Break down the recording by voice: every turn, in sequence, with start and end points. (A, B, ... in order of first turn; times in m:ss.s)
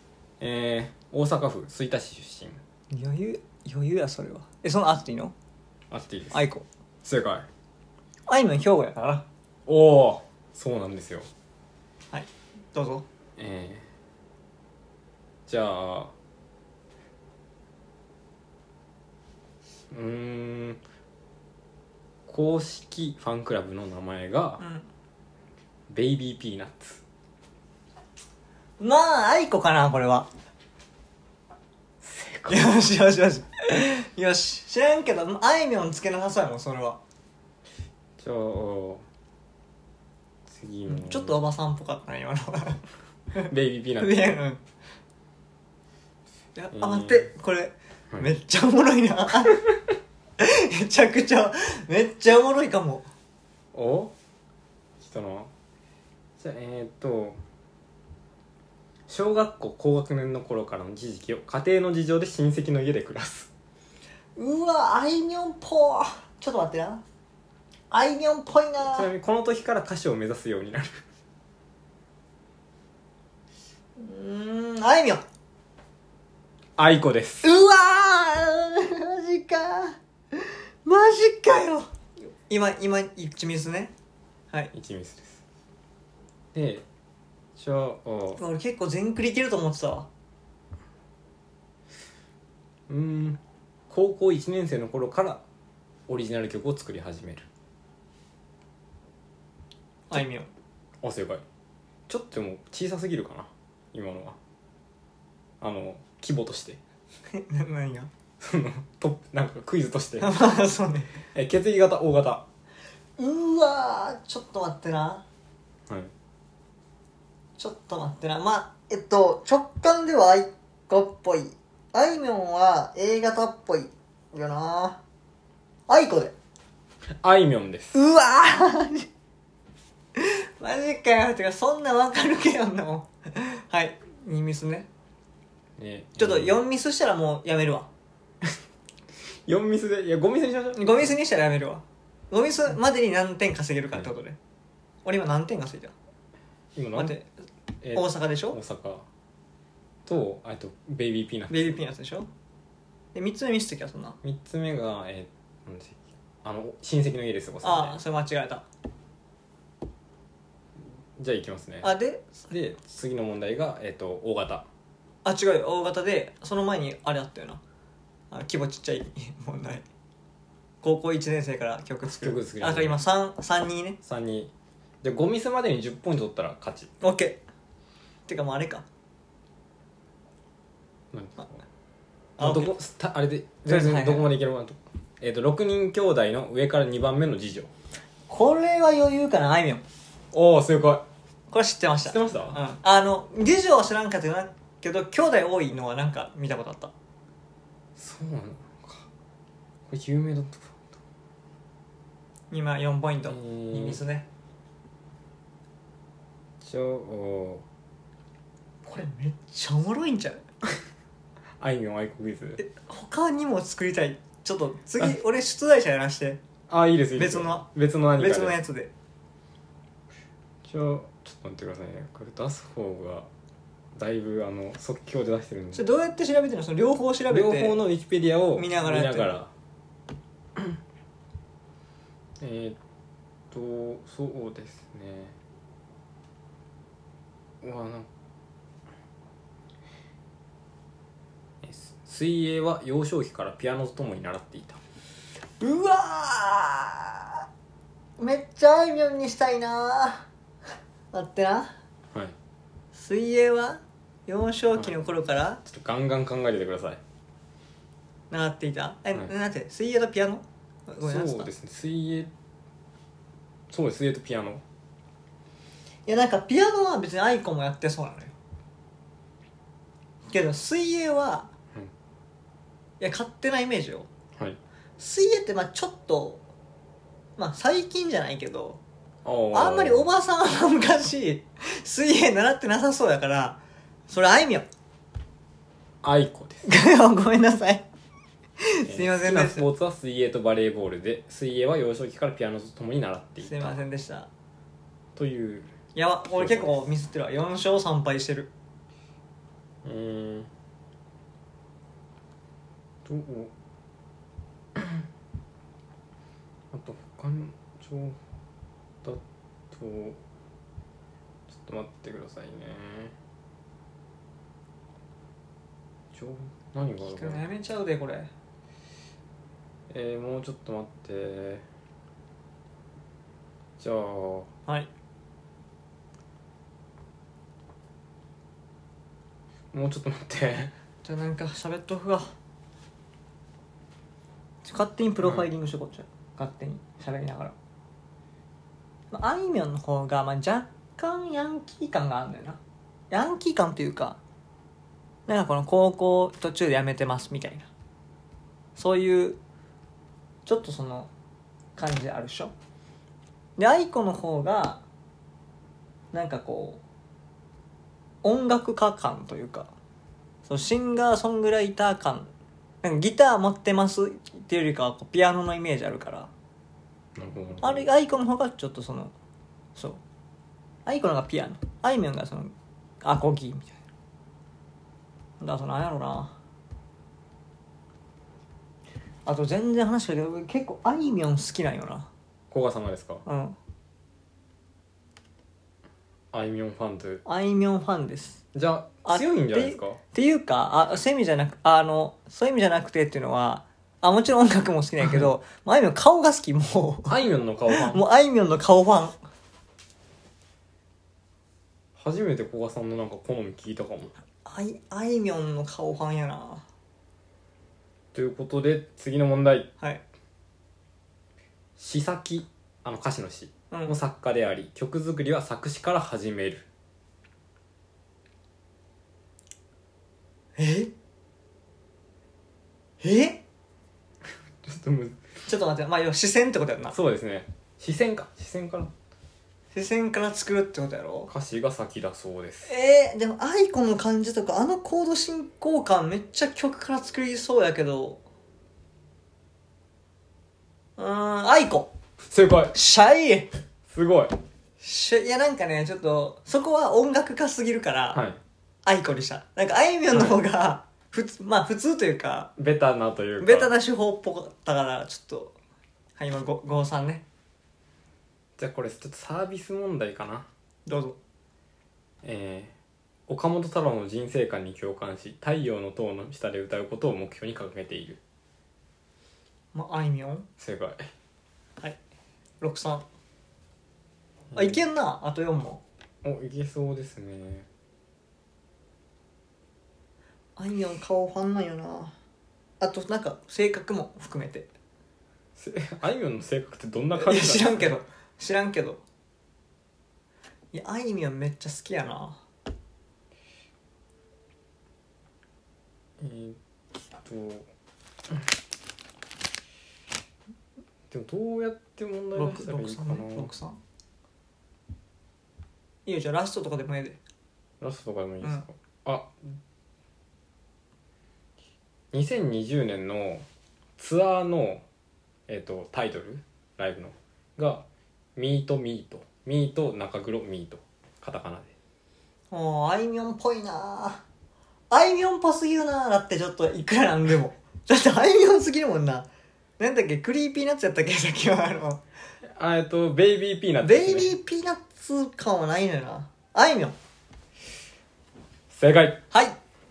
0:00.4-0:02.6 A
0:02.9-0:05.3 B
0:05.9-0:06.4 A
0:06.3-0:06.6 B
0:07.0-0:07.5 A
0:08.3-0:09.2 B
0:09.7-0:11.2 A
0:12.1-0:13.0 B
0:13.4-0:13.8 A
0:15.5-0:16.1 A
0:19.9-0:20.8 A
0:22.3-0:24.6 A
0:24.6-0:24.9 B
0:25.9-0:27.0 A
0:28.8-0:30.3 B
0:32.0-0:32.8 A
0:32.5-0:37.0 B
0:38.2-0:39.0 A
0:40.5-0:41.4 A
0:40.9-0:42.8 B
0:43.3-0:44.6 B
0:43.4-0:44.4 A
0:46.6-0:49.6 B
0:46.7-0:47.2 A
0:50.4-0:53.0 B
0:53.7-0:54.1 A
0:55.0-0:55.5 A
0:56.4-0:57.4 A
0:59.1-1:03.5 A
1:04.4-1:07.0 B
1:07.9-1:09.1 B
1:08.9-1:11.0 A
1:14.0-1:15.2 B
1:16.8-1:17.4 A
1:17.4-1:21.8 B
1:22.5-1:23.9 B
1:24.7-1:25.4 A
1:26.5-1:26.8 A
1:27.6-1:28.4 A
1:28.4-1:30.1 B
1:32.9-1:35.4 A
1:36.1-1:37.4 A
1:40.1-1:40.5 B
1:41.0-1:41.4 A
1:42.1-1:44.4 A
1:45.6-1:46.8 A
1:47.3-1:48.1 B
1:48.4-1:50.4 A
1:50.2-1:51.1 B
1:51.3-1:52.4 A
1:53.2-1:55.2 B
1:57.6-2:05.0 B
2:05.9-2:06.3 B
2:07.2-2:08.0 A
2:07.9-2:09.1 B
2:10.2-2:14.9 B
2:15.8-2:16.6 A
2:16.2-2:17.9 B
2:19.3-2:21.1 A
2:20.7-2:24.4 B
2:25.0-2:25.9 B
2:26.8-2:27.2 A
2:27.0-2:27.2 B
2:27.8-2:29.0 A
2:27.9-2:28.6 B
2:30.0-2:31.8 A
2:31.5-2:32.3 B
2:33.1-2:34.2 B
2:34.2-2:38.0 A
2:37.6-2:38.6 B
2:41.2-2:41.9 A
2:41.8-2:42.4 B
2:42.5-2:44.6 A
2:45.2-2:47.6 B
2:48.3-2:49.8 B
2:50.8-2:54.0 B
2:52.0-2:53.0 A
2:54.0-2:54.5 A
2:55.0-2:56.9 A
2:57.0-2:57.4 B
2:58.3-2:58.8 B
3:01.1-3:01.6 A
3:02.4-3:02.7 B
3:02.4-3:07.7 A
3:03.6-3:04.3 B
3:08.3-3:09.8 B
3:10.3-3:11.0 A
3:11.5-3:16.9 B
3:12.0-3:12.6 A
3:18.0-3:19.1 A
3:19.9-3:20.8 A
3:22.5-3:24.2 B
3:23.3-3:24.0 A
3:26.6-3:27.6 A
3:28.8-3:30.4 B
3:31.6-3:32.6 A
3:32.6-3:36.4 B
3:36.7-3:38.6 A
3:37.1-3:38.9 B
3:40.6-3:43.3 A
3:43.9-3:45.8 A
3:45.7-3:47.8 B
3:47.3-3:49.5 A
3:48.6-3:49.4 B
3:52.4-3:52.8 A
3:53.5-3:55.3 A
3:57.6-3:58.1 A
4:01.6-4:04.8 A
4:05.6-4:07.4 B
4:08.2-4:10.2 B
4:11.1-4:11.7 B
4:12.9-4:15.6 B
4:15.6-4:17.0 A
4:18.3-4:21.5 B
4:21.0-4:22.3 A
4:23.7-4:24.6 A
4:26.1-4:28.3 B
4:30.3-4:31.5 B
4:33.0-4:34.1 B
4:35.0-4:36.4 B
4:37.4-4:38.8 B
4:39.2-4:40.1 A
4:39.5-4:44.7 B
4:46.0-4:46.6 A
4:46.6-4:47.8 B
4:48.6-4:49.6 B
4:48.9-4:53.8 A
4:53.4-4:54.3 B
4:55.2-4:55.7 A
4:55.9-4:58.5 B
4:56.4-4:56.8 A
4:59.8-5:00.5 A
5:03.0-5:03.5 A
5:04.8-5:05.0 A
5:06.7-5:08.2 A
5:09.7-5:10.2 A
5:11.5-5:13.1 A
5:16.1-5:17.4 A
5:17.0-5:18.3 B
5:19.9-5:21.6 A
5:23.8-5:24.5 A
5:29.7-5:30.7 A
5:31.0-5:32.3 B
5:34.6-5:37.5 B
5:39.1-5:42.6 B
5:43.1-5:44.2 B
5:45.3-5:47.7 B
5:48.8-5:49.4 B
5:50.4-5:51.1 B
5:51.8-5:52.5 B
5:53.6-5:54.8 B
5:56.1-5:56.8 B
5:58.2-5:59.7 B
6:00.5-6:02.3 B
6:02.8-6:06.3 B
6:07.1-6:07.9 A
6:07.6-6:09.1 B
6:09.8-6:10.0 B
6:10.8-6:13.8 B
6:15.4-6:16.3 B
6:19.2-6:22.1 B
6:22.5-6:23.2 A
6:23.2-6:23.6 B
6:26.3-6:27.2 A
6:27.2-6:28.4 B
6:28.5-6:30.0 A
6:29.0-6:37.2 B
6:37.1-6:38.0 A
6:37.7-6:39.2 B
6:42.0-6:44.1 A
6:44.4-6:46.6 B
6:48.1-6:49.7 A
6:51.8-6:56.6 A
7:00.6-7:00.9 B
7:03.0-7:03.4 B
7:04.6-7:05.2 A
7:05.5-7:07.0 B
7:06.9-7:08.9 A
7:09.7-7:11.3 B
7:11.3-7:12.7 A
7:12.6-7:18.2 B
7:21.0-7:21.9 B
7:22.3-7:22.7 A
7:22.7-7:23.5 B
7:23.9-7:24.4 A
7:24.8-7:28.2 B
7:28.1-7:28.4 A
7:28.8-7:32.5 B
7:30.1-7:30.4 A
7:32.6-7:33.7 A
7:33.4-7:35.5 B
7:36.2-7:37.2 B
7:38.6-7:40.5 A
7:40.9-7:41.2 B
7:42.2-7:42.7 A
7:43.3-7:48.2 A
7:49.7-7:50.4 B
7:50.6-7:51.0 A
7:52.6-7:53.0 B
7:54.5-7:55.8 B
7:56.2-7:57.7 A
8:00.6-8:02.1 B
8:02.8-8:04.7 B
8:05.6-8:07.9 A
8:07.1-8:09.0 B
8:10.7-8:12.4 B
8:16.2-8:16.6 A
8:17.2-8:17.7 A
8:21.1-8:23.5 A
8:22.3-8:23.8 B
8:26.0-8:27.2 B
8:27.8-8:29.5 A
8:32.1-8:33.4 A
8:34.0-8:34.8 A
8:35.5-8:37.8 A
8:38.4-8:41.7 A
8:42.5-8:44.2 B
8:44.9-8:49.3 B
8:49.8-8:52.0 B
8:52.6-8:54.3 A
8:53.8-8:56.9 B
8:58.7-8:59.2 A
8:59.3-8:59.6 B